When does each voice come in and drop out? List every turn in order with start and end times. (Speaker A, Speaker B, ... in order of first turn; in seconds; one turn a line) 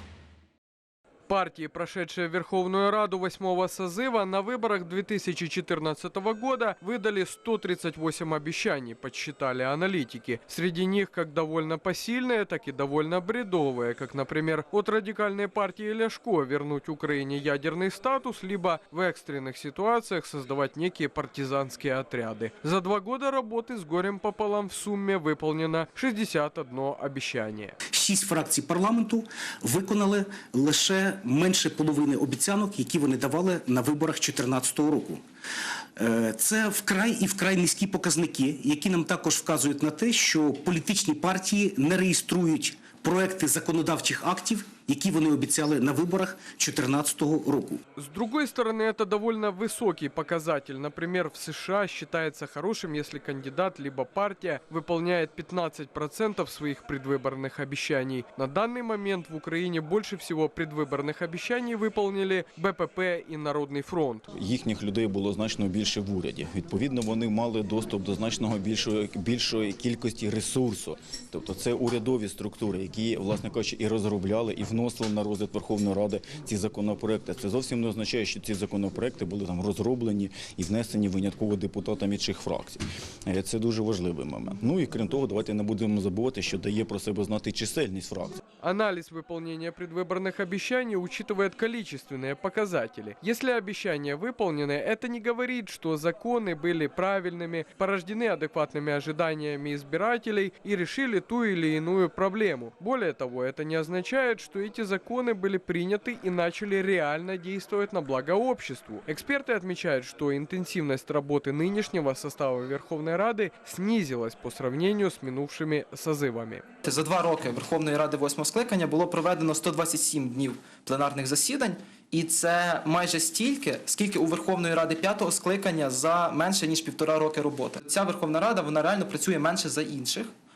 Speaker A: 1.3-27.7
Speaker B: 27.9-35.2
Speaker B: 36.0-47.8
Speaker A: 48.0-64.2
Speaker C: 64.3-88.4
Speaker A: 88.6-116.6
Speaker D: 116.8-130.3